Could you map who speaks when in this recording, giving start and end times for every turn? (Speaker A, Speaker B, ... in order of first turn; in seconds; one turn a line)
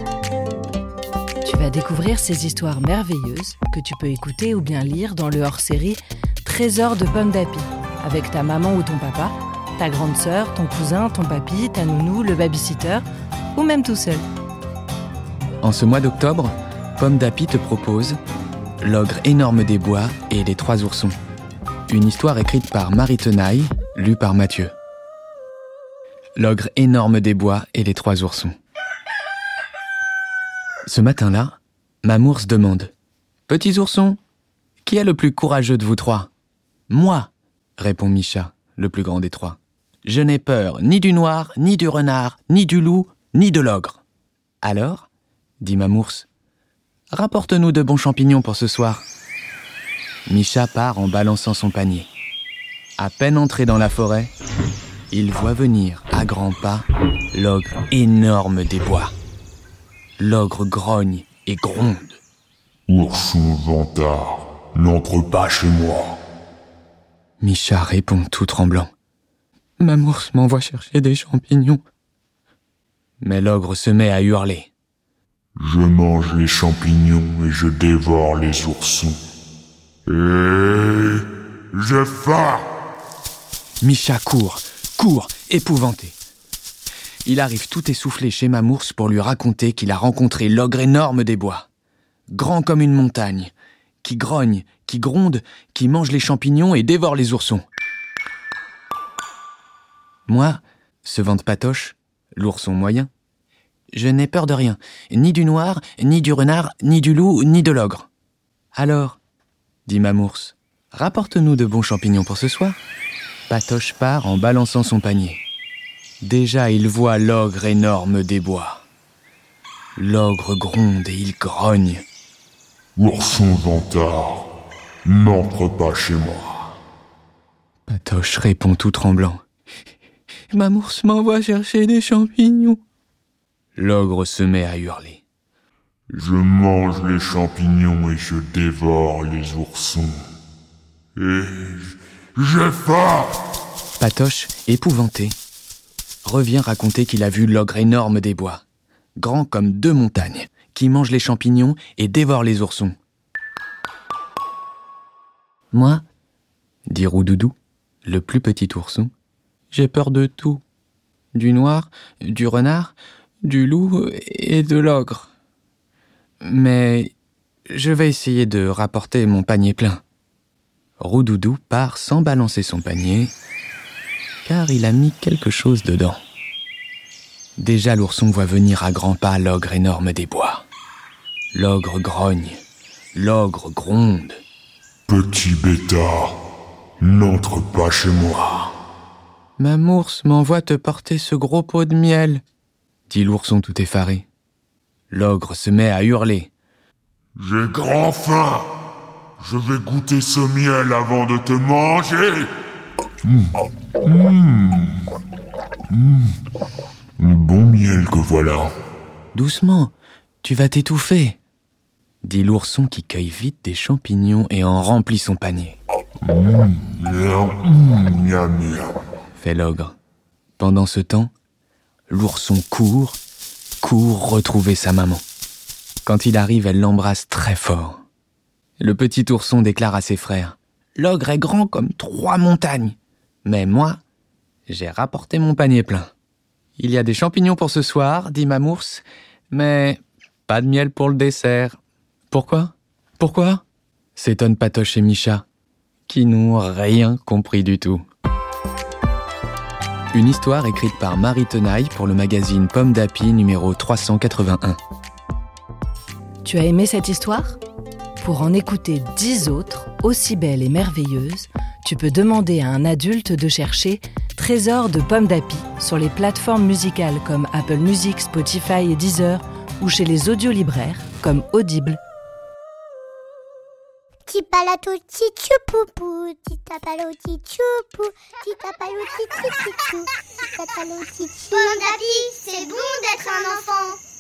Speaker A: 1.4-13.0
Speaker A: 13.5-14.2
Speaker B: 15.6-18.2
Speaker B: 18.8-21.2
Speaker B: 21.9-24.7
Speaker B: 26.4-28.6
Speaker B: 30.9-32.9
Speaker B: 33.5-34.2
Speaker B: 34.8-36.3
Speaker B: 36.9-44.0
Speaker B: 44.6-45.1
Speaker B: 45.6-46.3
Speaker B: 47.1-49.1
Speaker B: 50.3-52.1
Speaker B: 53.0-54.3
Speaker B: 55.1-59.1
Speaker B: 60.2-62.2
Speaker C: 62.9-66.2
Speaker B: 67.4-68.9
Speaker B: 69.8-71.8
Speaker B: 73.2-74.7
Speaker C: 75.6-79.2
Speaker C: 80.1-82.7
Speaker B: 83.8-86.2
Speaker B: 87.2-91.7
Speaker B: 92.3-97.6
Speaker B: 100.3-103.1
Speaker B: 103.9-108.1
Speaker B: 108.8-109.2
Speaker B: 109.9-112.8
Speaker B: 113.5-115.4
Speaker B: 116.2-118.8
Speaker B: 120.0-122.0
Speaker C: 123.0-124.5
Speaker C: 125.0-126.8
Speaker B: 127.9-129.4
Speaker B: 130.5-132.8
Speaker B: 133.8-135.2
Speaker C: 136.1-140.1
Speaker C: 141.2-143.4
Speaker B: 144.0-145.3
Speaker B: 146.2-148.6
Speaker B: 149.2-152.9
Speaker B: 155.7-156.0
Speaker B: 156.9-159.1
Speaker B: 159.7-160.6
Speaker B: 161.3-165.3
Speaker B: 166.4-167.1
Speaker B: 167.7-170.0
Speaker B: 171.0-173.3
Speaker B: 174.4-176.2
Speaker B: 177.6-180.7
Speaker B: 181.5-182.6
Speaker B: 183.1-184.4
Speaker C: 185.1-186.3
Speaker C: 187.0-188.7
Speaker B: 189.6-192.4
Speaker B: 193.1-194.2
Speaker B: 195.1-196.5
Speaker C: 197.4-198.7
Speaker C: 199.4-202.5
Speaker C: 203.2-205.1
Speaker C: 205.9-206.3
Speaker C: 207.2-208.7
Speaker B: 209.3-211.4
Speaker B: 212.2-215.8
Speaker C: 216.2-218.9
Speaker B: 219.4-219.9
Speaker B: 220.6-221.3
Speaker B: 222.1-223.2
Speaker B: 223.8-225.2
Speaker B: 226.1-228.0
Speaker B: 228.8-234.0
Speaker B: 234.7-236.1
Speaker B: 236.8-241.8
Speaker B: 242.3-243.6
Speaker B: 244.2-245.4
Speaker B: 246.1-248.0
Speaker B: 250.1-254.8
Speaker A: 256.4-257.6
Speaker A: 258.2-272.0
Speaker D: 274.3-281.7
Speaker E: 281.5-284.0